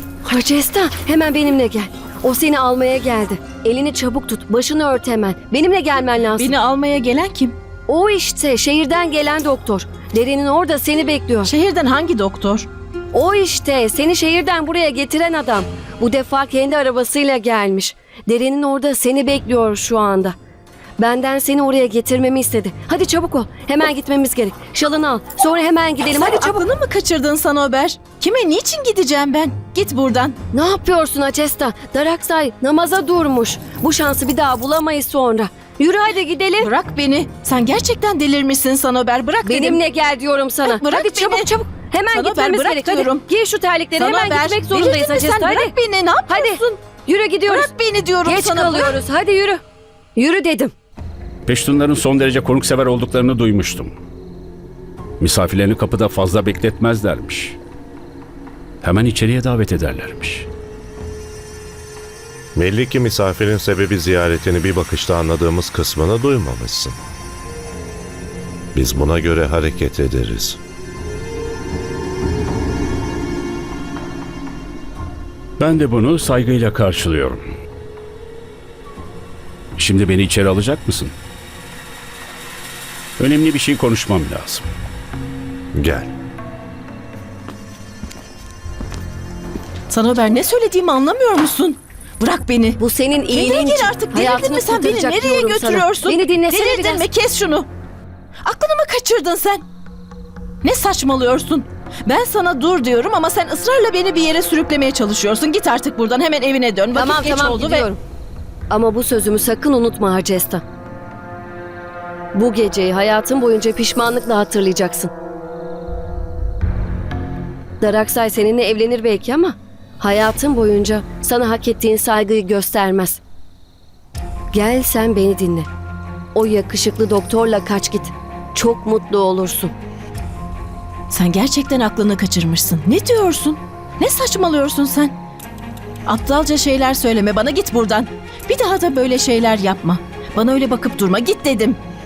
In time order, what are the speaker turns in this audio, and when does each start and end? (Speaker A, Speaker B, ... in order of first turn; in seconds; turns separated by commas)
Speaker A: 0.2-6.5, Speaker B: 6.4-7.6, Speaker A: 7.9-11.5, Speaker B: 11.4-12.7, Speaker A: 13.1-20.4, Speaker A: 21.0-26.6, Speaker B: 26.1-30.4, Speaker A: 30.5-36.7, Speaker B: 36.6-39.8, Speaker A: 39.5-45.8, Speaker B: 40.6-41.5, Speaker B: 42.1-43.2, Speaker B: 44.0-46.8, Speaker A: 46.3-47.7, Speaker B: 47.5-48.9, Speaker A: 48.2-49.6, Speaker A: 50.2-50.7, Speaker C: 51.5-53.9, Speaker C: 55.2-57.6, Speaker C: 58.8-60.5, Speaker D: 62.5-67.0, Speaker D: 68.8-70.6, Speaker C: 75.6-77.4, Speaker C: 79.8-81.2, Speaker C: 83.2-84.7, Speaker D: 85.7-86.1, Speaker B: 89.9-92.8, Speaker A: 92.8-97.0, Speaker B: 93.3-97.7, Speaker B: 98.5-99.7, Speaker B: 100.6-108.0, Speaker A: 106.9-108.0, Speaker A: 108.7-110.6, Speaker A: 112.3-115.1, Speaker A: 117.8-123.2, Speaker A: 124.5-125.7, Speaker A: 126.3-129.7, Speaker B: 131.1-135.2, Speaker B: 136.1-141.8